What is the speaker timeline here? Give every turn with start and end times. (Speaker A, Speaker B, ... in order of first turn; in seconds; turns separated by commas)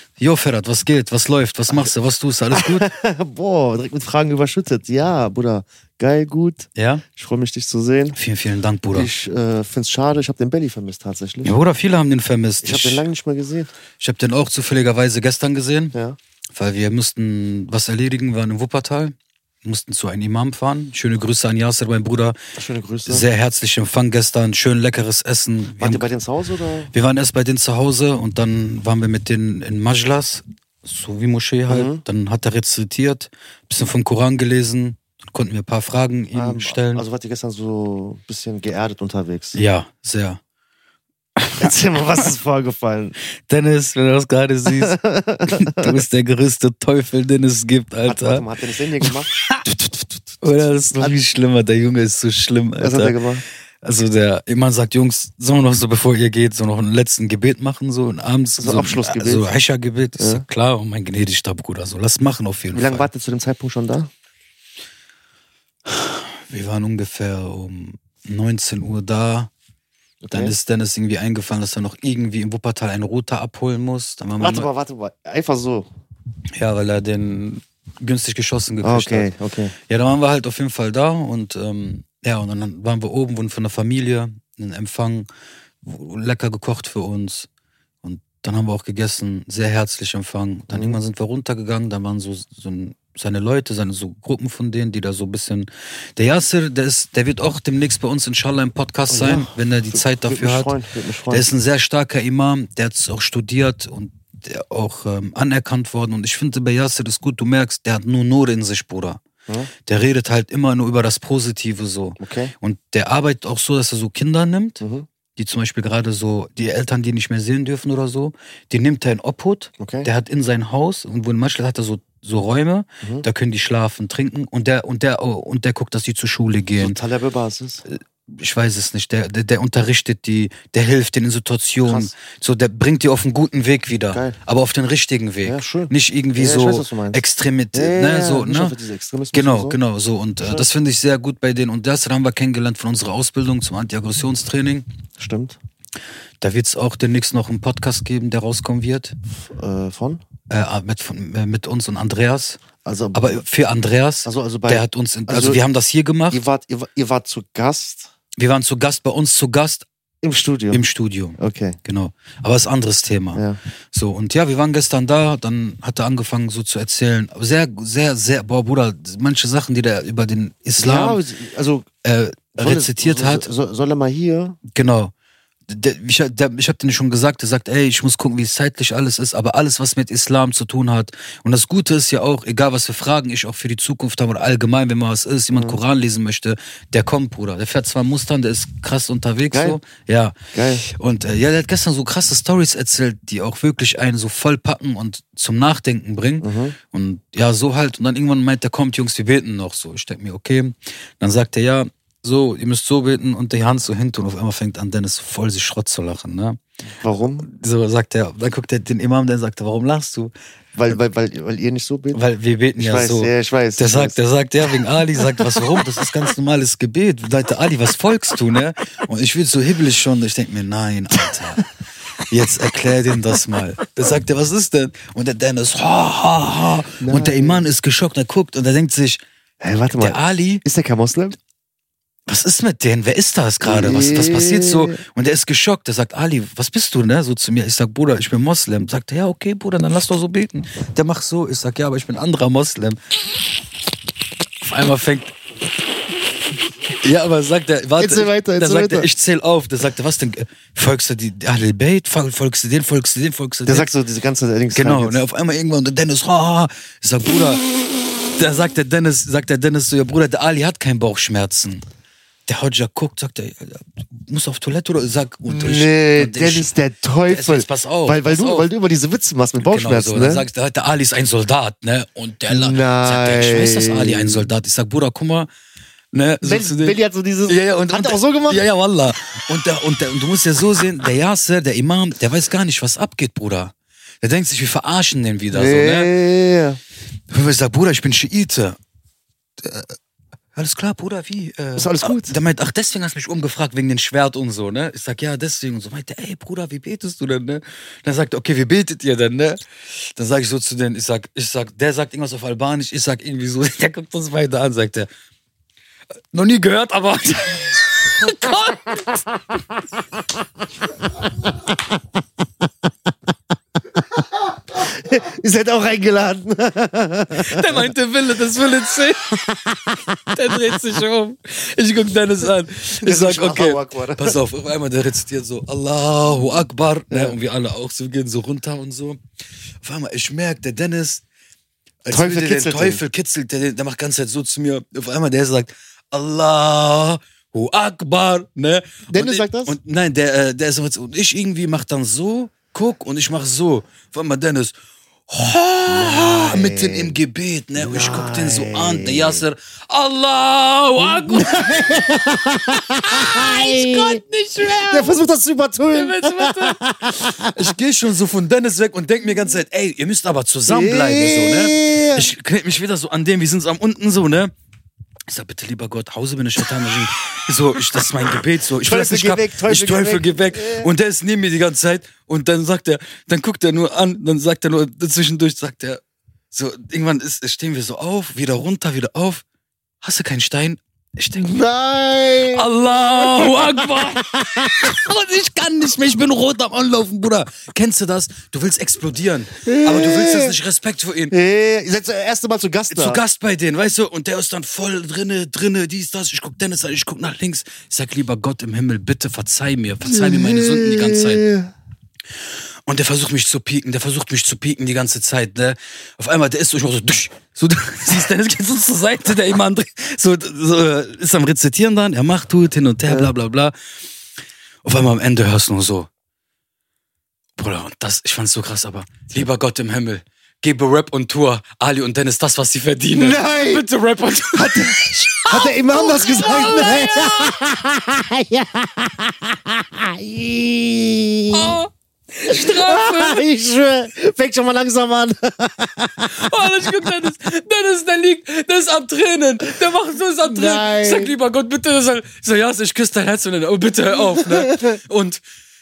Speaker A: 0.2-2.9, Speaker B: 2.5-8.2, Speaker A: 6.8-7.0, Speaker A: 8.1-9.1, Speaker B: 8.9-11.5, Speaker A: 11.4-13.1, Speaker B: 12.6-13.7, Speaker A: 14.0-15.9, Speaker A: 16.5-22.4, Speaker B: 22.5-23.2, Speaker A: 23.1-26.1, Speaker B: 25.8-26.9, Speaker A: 26.9-37.0, Speaker B: 31.7-32.0, Speaker B: 36.3-39.6, Speaker A: 39.5-40.4, Speaker A: 41.4-41.7, Speaker B: 41.5-43.1, Speaker A: 43.5-48.5, Speaker B: 44.6-46.0, Speaker B: 48.0-50.4, Speaker A: 49.0-49.6, Speaker A: 50.4-53.1, Speaker B: 52.8-53.4, Speaker A: 53.8-63.0, Speaker B: 58.6-59.5, Speaker B: 60.2-60.4, Speaker B: 62.7-64.1, Speaker A: 65.9-69.5, Speaker B: 70.2-70.5, Speaker A: 70.3-74.7, Speaker B: 74.4-75.9, Speaker A: 76.5-79.3, Speaker B: 78.8-79.7, Speaker A: 79.8-85.2, Speaker A: 85.8-87.5, Speaker A: 88.0-100.7, Speaker B: 90.7-91.0, Speaker B: 99.1-101.5, Speaker A: 101.3-109.2, Speaker A: 109.8-114.8, Speaker B: 112.2-112.5, Speaker B: 114.8-115.1, Speaker A: 115.3-127.0, Speaker B: 119.8-120.1, Speaker B: 126.8-127.8, Speaker A: 127.9-138.7, Speaker B: 131.8-132.1, Speaker B: 134.1-134.4, Speaker B: 135.4-137.2, Speaker B: 137.7-139.8, Speaker A: 139.3-144.8, Speaker B: 140.4-140.7, Speaker B: 145.2-145.6, Speaker A: 146.4-149.2, Speaker B: 149.5-150.2, Speaker A: 150.5-152.6, Speaker B: 152.8-153.4, Speaker A: 153.1-156.4, Speaker B: 154.2-155.6, Speaker B: 156.3-158.1, Speaker A: 158.4-159.9, Speaker B: 160.2-160.8, Speaker A: 160.7-171.2, Speaker B: 161.4-161.8, Speaker B: 163.3-163.6, Speaker B: 170.8-171.9, Speaker A: 172.0-173.5, Speaker B: 172.6-174.6, Speaker A: 174.7-175.1, Speaker A: 175.7-206.6, Speaker B: 185.5-185.8, Speaker B: 189.5-189.8, Speaker B: 190.5-190.8, Speaker B: 196.4-196.8, Speaker B: 207.0-207.5, Speaker A: 207.4-210.3, Speaker B: 210.7-212.2, Speaker A: 212.1-221.7, Speaker B: 212.8-214.2, Speaker B: 215.2-215.6, Speaker A: 222.2-229.2, Speaker B: 227.0-227.7, Speaker B: 229.6-231.3, Speaker A: 230.0-230.6, Speaker A: 232.3-243.0, Speaker B: 233.6-235.0, Speaker A: 244.6-245.3, Speaker A: 247.0-253.9, Speaker B: 248.0-249.1, Speaker B: 253.7-255.2, Speaker A: 254.7-257.6, Speaker A: 258.3-261.8, Speaker A: 262.5-266.7, Speaker B: 265.5-270.5, Speaker A: 267.2-268.7, Speaker A: 269.6-275.5, Speaker B: 272.5-274.5, Speaker A: 276.1-286.1, Speaker B: 276.4-278.6, Speaker B: 285.5-286.8, Speaker A: 287.3-288.8, Speaker A: 289.6-289.9, Speaker A: 290.5-305.1, Speaker B: 291.8-292.4, Speaker A: 306.3-309.2, Speaker B: 311.0-312.0, Speaker B: 313.9-317.9, Speaker A: 317.3-319.4, Speaker B: 319.3-320.8, Speaker A: 320.3-329.2, Speaker B: 323.0-324.4, Speaker B: 327.1-327.3, Speaker A: 329.8-331.2, Speaker A: 332.0-344.7, Speaker B: 332.1-333.0, Speaker B: 339.1-339.8, Speaker A: 345.3-352.1, Speaker B: 345.9-347.1, Speaker B: 347.8-349.4, Speaker B: 351.0-357.7, Speaker A: 352.8-355.2, Speaker A: 355.9-364.5, Speaker B: 360.7-362.3, Speaker A: 365.3-379.4, Speaker B: 368.8-370.9, Speaker A: 380.0-381.5, Speaker B: 381.4-385.0, Speaker A: 382.5-391.3, Speaker B: 389.6-390.6, Speaker B: 391.3-393.2, Speaker A: 392.9-401.4, Speaker B: 400.0-401.7, Speaker A: 402.9-413.7, Speaker B: 413.1-413.3, Speaker A: 414.8-416.1, Speaker A: 417.6-427.6, Speaker B: 423.1-423.9, Speaker B: 424.5-431.8, Speaker A: 431.5-433.4, Speaker B: 432.5-437.1, Speaker A: 436.2-445.4, Speaker B: 440.4-441.3, Speaker B: 444.3-445.0